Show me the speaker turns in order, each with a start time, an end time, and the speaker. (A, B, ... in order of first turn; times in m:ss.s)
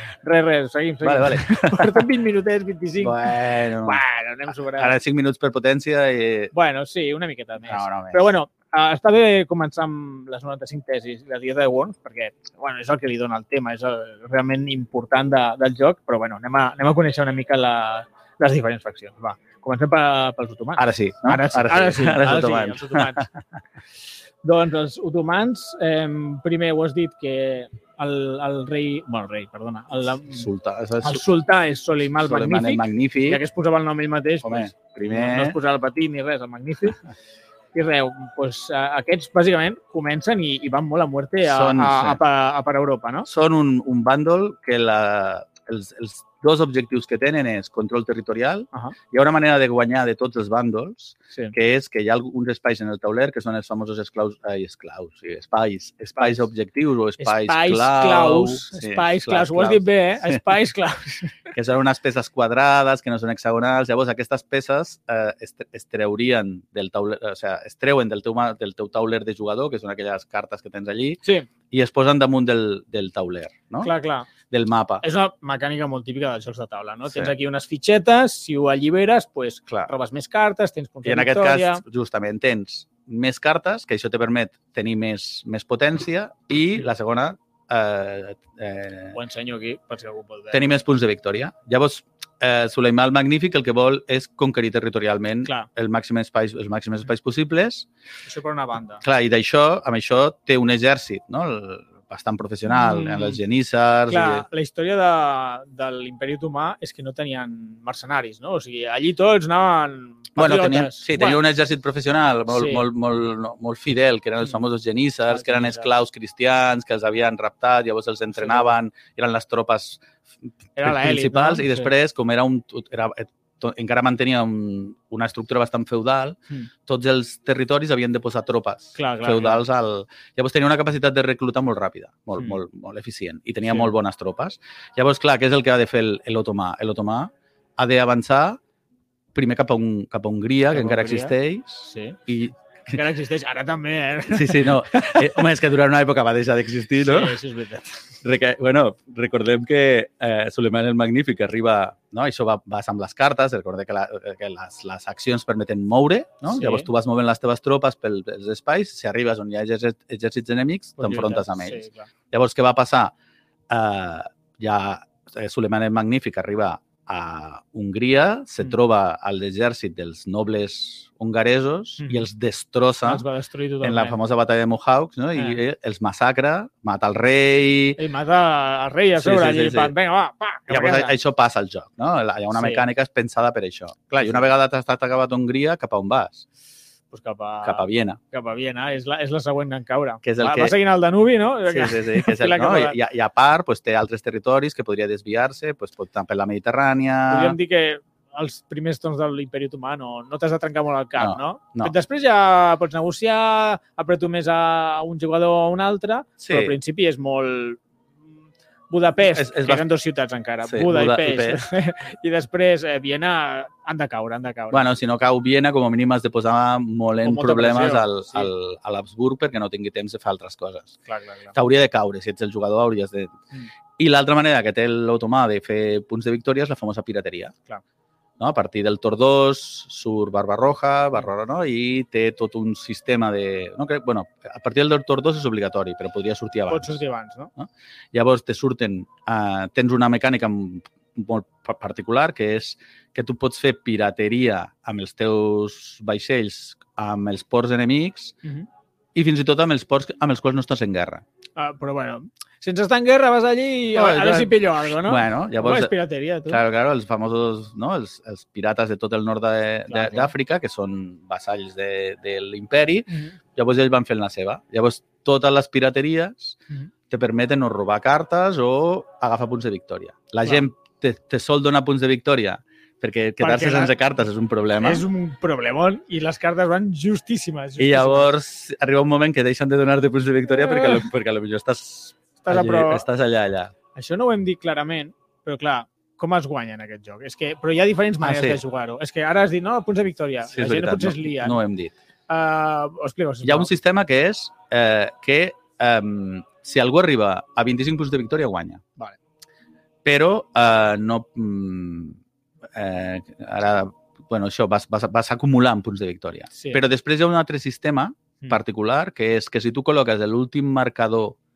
0:00.2-0:05.0 A
0:01.0-0:02.1 B
0:03.0-0:04.0 B
0:04.8-0:06.5 B
0:06.5-0:23.3 A
0:07.6-0:08.3 B
0:20.8-0:23.3 B
0:24.4-0:30.5 A
0:30.3-0:31.2 B
0:31.0-0:37.0 A
0:32.2-0:33.4 B
0:34.4-0:35.6 B
0:37.7-0:43.3 A
0:41.4-0:42.2 B
0:43.3-1:00.4 B
0:56.2-0:56.4 A
0:57.2-1:01.5 A
1:01.5-1:13.9 B
1:13.8-1:14.3 A
1:14.5-1:15.0 B
1:15.0-1:21.8 A
1:17.1-1:17.3 B
1:21.0-1:29.2 B
1:29.1-1:30.6 A
1:30.5-1:37.9 B
1:38.2-1:39.0 A
1:39.0-1:44.4 B
1:42.7-1:43.4 A
1:44.1-1:51.4 A
1:50.4-2:00.0 B
1:52.5-1:52.9 A
1:55.3-1:55.9 A
1:58.3-1:58.7 A
2:00.8-2:01.9 A
2:00.8-2:18.6 B
2:09.0-2:09.6 A
2:13.6-2:13.9 A
2:19.3-2:23.0 B
2:20.7-2:22.2 A
2:22.9-2:25.4 A
2:24.3-2:27.4 B
2:27.0-2:28.0 A
2:28.2-2:43.1 B
2:36.5-2:36.9 A
2:41.0-2:42.1 A
2:43.7-2:53.2 B
2:52.0-2:52.3 A
2:53.0-2:54.2 A
2:53.8-2:58.0 B
2:58.0-3:01.1 A
2:59.2-2:59.9 B
3:00.7-3:06.4 B
3:02.5-3:02.9 A
3:04.1-3:04.5 A
3:07.1-3:13.0 A
3:07.6-3:08.2 B
3:10.2-3:10.7 B
3:11.7-3:17.6 B
3:17.3-3:27.8 A
3:21.2-3:21.9 B
3:26.4-3:26.7 B
3:28.9-3:34.9 A
3:29.2-3:29.8 B
3:30.6-3:31.6 B
3:34.7-3:40.9 B
3:37.2-3:38.5 A
3:41.1-3:41.5 A
3:41.5-3:43.4 B
3:44.0-3:47.5 B
3:48.4-3:57.0 B
3:56.7-3:57.5 A
3:57.6-4:08.3 B
4:09.1-4:11.2 B
4:11.6-4:16.6 A
4:13.9-4:15.9 B
4:16.5-4:26.6 B
4:19.9-4:20.3 A
4:23.1-4:23.4 A
4:27.1-4:35.0 B
4:33.4-4:33.9 A
4:34.8-4:38.3 A
4:37.8-4:43.7 B
4:40.5-4:41.0 A
4:42.4-4:43.0 A
4:43.9-4:51.6 A
4:48.2-4:48.6 B
4:50.5-4:51.9 B
4:52.3-4:53.7 A
4:53.4-4:58.8 B
5:00.0-5:02.2 B
5:02.7-5:11.4 B
5:06.5-5:06.8 A